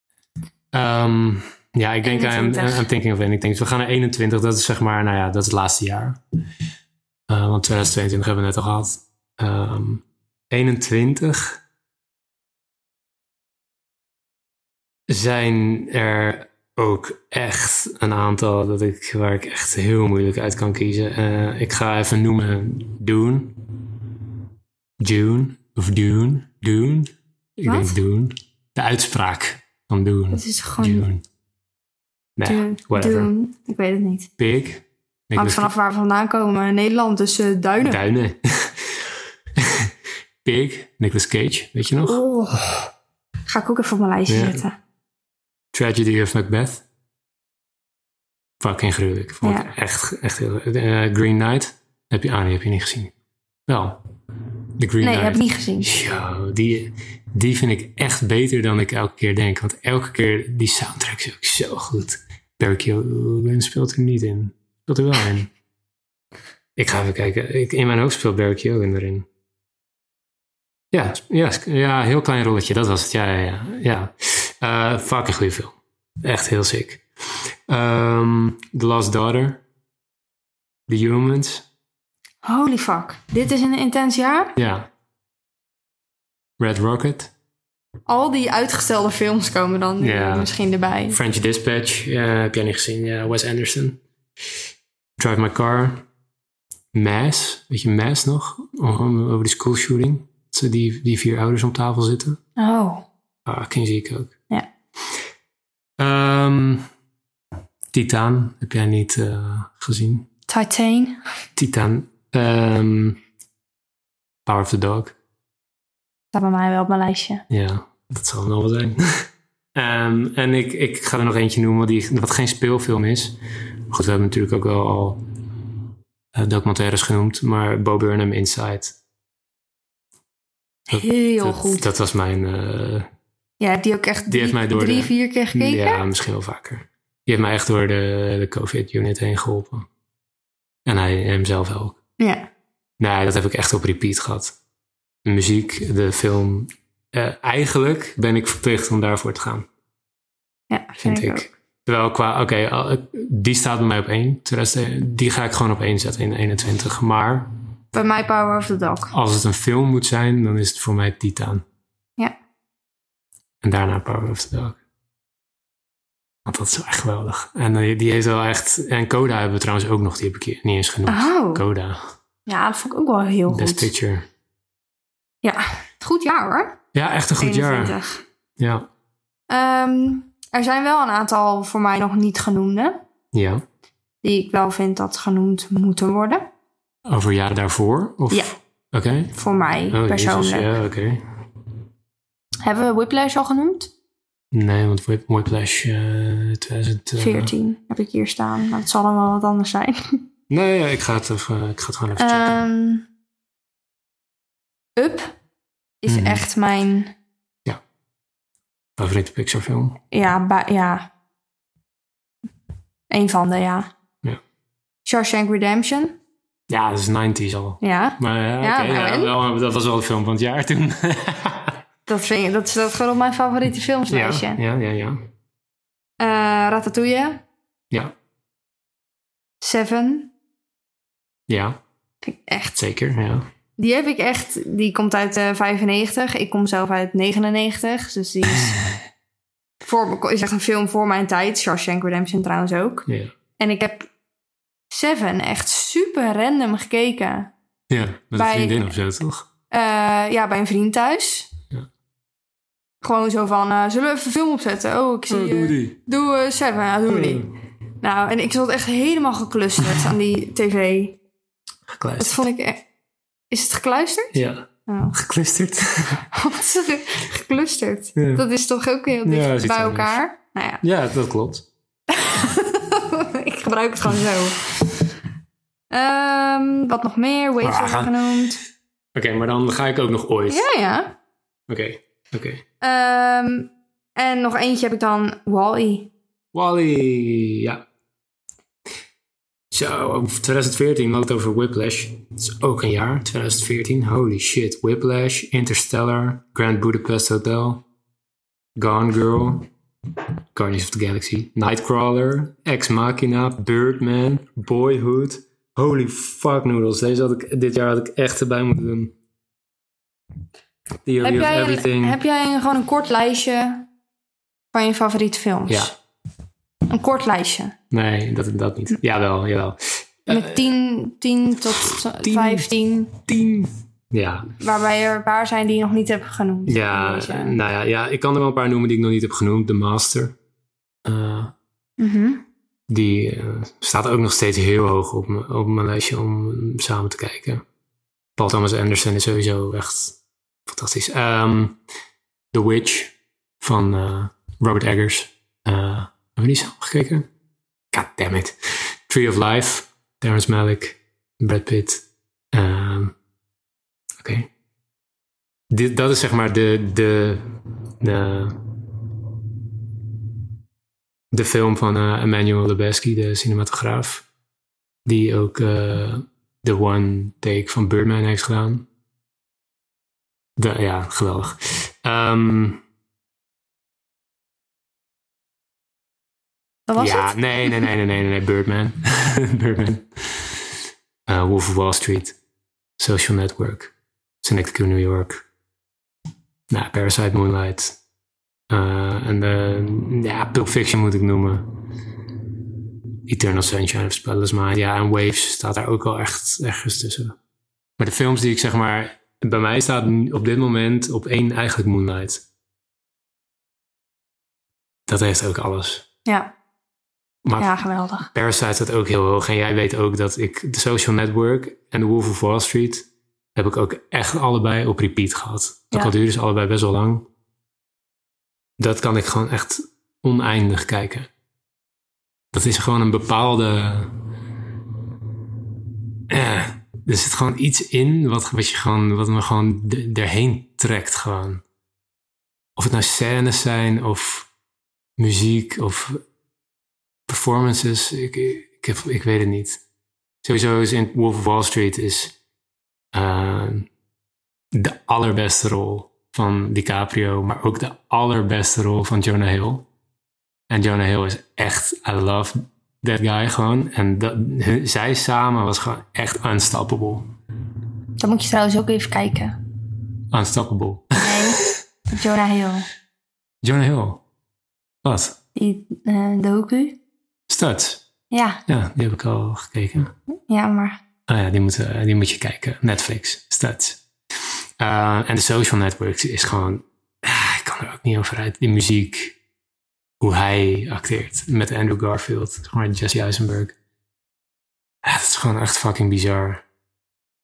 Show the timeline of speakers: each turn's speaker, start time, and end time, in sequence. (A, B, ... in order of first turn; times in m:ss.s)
0:00.7-0:06.2 A
0:02.0-0:02.9 B
0:07.3-0:11.6 A
0:15.1-0:23.6 A
0:25.0-0:31.2 A
0:27.6-0:27.9 B
0:30.3-0:31.1 B
0:32.4-0:33.3 A
0:32.4-0:34.3 B
0:34.4-0:35.7 A
0:35.4-0:38.0 B
0:37.8-0:39.9 A
0:40.4-0:42.2 A
0:42.0-0:42.9 B
0:43.5-0:44.8 B
0:44.3-0:44.6 A
0:45.7-0:46.8 A
0:48.6-0:53.1 A
0:49.4-0:49.7 B
0:53.7-0:54.0 A
0:54.8-1:05.5 A
0:55.0-0:55.9 B
1:06.8-1:09.2 A
1:10.9-1:19.6 A
1:20.9-1:21.6 A
1:22.4-1:24.5 B
1:24.6-1:24.9 A
1:26.6-1:27.3 A
1:28.1-1:31.2 B
1:30.0-1:30.5 A
1:31.1-1:34.0 A
1:35.2-1:36.0 A
1:36.9-1:42.4 A
1:42.6-1:43.1 B
1:43.4-1:44.3 A
1:46.0-1:46.8 A
1:47.9-1:50.3 A
1:50.5-1:51.2 B
1:51.6-1:53.2 A
1:54.4-1:55.1 A
1:56.3-1:57.4 B
1:57.5-2:03.4 A
2:03.9-2:05.2 A
2:06.3-2:09.0 A
2:10.9-2:11.8 B
2:10.9-2:13.1 A
2:13.6-2:16.0 B
2:14.3-2:19.9 A
2:20.8-2:22.0 A
2:22.2-2:22.5 B
2:23.0-2:24.6 A
2:25.2-2:29.7 A
2:30.7-2:31.5 B
2:31.0-2:37.5 A
2:37.9-2:39.1 B
2:39.1-2:41.6 A
2:43.6-2:44.8 A
2:46.4-2:52.1 A
2:51.0-2:51.6 B
2:52.4-2:53.9 B
2:53.5-2:54.2 A
2:55.4-2:56.8 B
2:56.9-2:58.0 A
2:57.4-2:58.2 B
2:58.6-2:58.9 A
2:59.5-3:03.0 B
3:03.3-3:03.6 A
3:04.2-3:06.5 B
3:07.0-3:09.3 A
3:09.3-3:10.7 B
3:09.9-3:11.2 A
3:12.6-3:13.9 B
3:14.5-3:17.5 A
3:17.2-3:20.2 B
3:20.5-3:22.6 A
3:22.2-3:23.1 B
3:25.0-3:25.3 B
3:26.0-3:27.1 B
3:26.1-3:26.4 A
3:29.0-3:30.0 A
3:30.1-3:31.1 B
3:33.1-3:33.9 B
3:35.0-3:36.2 B
3:36.7-3:41.8 A
3:37.8-3:39.3 B
3:42.1-3:44.6 B
3:44.1-3:45.2 A
3:46.2-3:47.4 B
3:49.6-3:50.3 B
3:51.5-3:51.8 A
3:52.2-3:52.8 B
3:52.7-3:53.4 A
3:53.8-3:58.8 B
3:58.6-3:59.0 A
3:59.8-4:03.1 B
4:03.1-4:03.3 A
4:03.6-4:04.1 B
4:04.9-4:07.5 B
4:07.9-4:09.5 A
4:08.3-4:08.9 B
4:09.7-4:11.5 B
4:13.0-4:21.2 B
4:15.3-4:16.0 A
4:17.1-4:17.5 A
4:21.9-4:22.4 A
4:22.2-4:22.8 B
4:23.5-4:25.1 B
4:24.3-4:26.2 A
4:26.3-4:30.8 B
4:28.2-4:28.4 A
4:29.2-4:30.2 A
4:30.8-4:31.6 A
4:32.1-4:34.9 B
4:35.9-4:38.6 B
4:37.6-4:38.4 A
4:39.1-4:40.7 A
4:40.5-4:41.2 B
4:41.7-4:42.6 A
4:42.8-4:46.1 B
4:46.5-4:47.8 A
4:49.7-4:57.8 A
4:58.8-4:59.7 A
5:00.5-5:09.1 A
5:11.0-5:12.2 A
5:11.2-5:13.9 B
5:14.7-5:15.9 B
5:15.7-5:15.9 A
5:16.9-5:17.7 B
5:17.9-5:20.7 A
5:20.3-5:23.2 B
5:21.8-5:22.6 A
5:23.3-5:24.5 A
5:24.6-5:27.6 B
5:26.7-5:30.4 A
5:31.0-5:31.5 A
5:32.0-5:32.4 B
5:32.9-5:37.6 A
5:38.4-5:41.8 A
5:42.5-5:47.3 A
5:47.9-5:53.2 A
5:54.2-5:54.5 A
5:55.7-5:57.4 A
5:58.0-5:58.7 A
6:01.3-6:04.2 A
6:05.0-6:08.9 A
6:10.6-6:12.8 A
6:16.9-6:17.9 B
6:17.0-6:20.7 A
6:21.3-6:22.4 A
6:23.0-6:25.4 A
6:26.7-6:28.0 A
6:28.7-6:31.8 A
6:33.2-6:37.4 A
6:38.0-6:42.4 A
6:45.1-6:46.0 A
6:46.2-6:46.5 B
6:47.4-6:47.8 A
6:47.6-6:48.3 B
6:48.3-6:57.2 A
6:58.8-7:01.3 A
7:02.5-7:04.2 A
7:06.3-7:11.6 A
7:12.8-7:14.5 A
7:15.2-7:16.2 A
7:17.3-7:19.8 A
7:20.4-7:22.3 A
7:23.1-7:23.9 A
7:24.7-7:29.9 A
7:30.7-7:37.3 A
7:38.2-7:39.6 B
7:40.3-7:41.7 A
7:41.2-7:42.8 B
7:43.6-7:44.2 A
7:45.0-7:45.4 A
7:45.5-7:47.0 B
7:47.5-7:48.0 A
7:48.3-7:48.6 B
7:48.7-7:50.1 A
7:50.5-7:51.0 B
7:51.3-7:54.0 A
7:54.8-7:59.4 A
8:00.2-8:03.8 A
8:05.0-8:06.6 A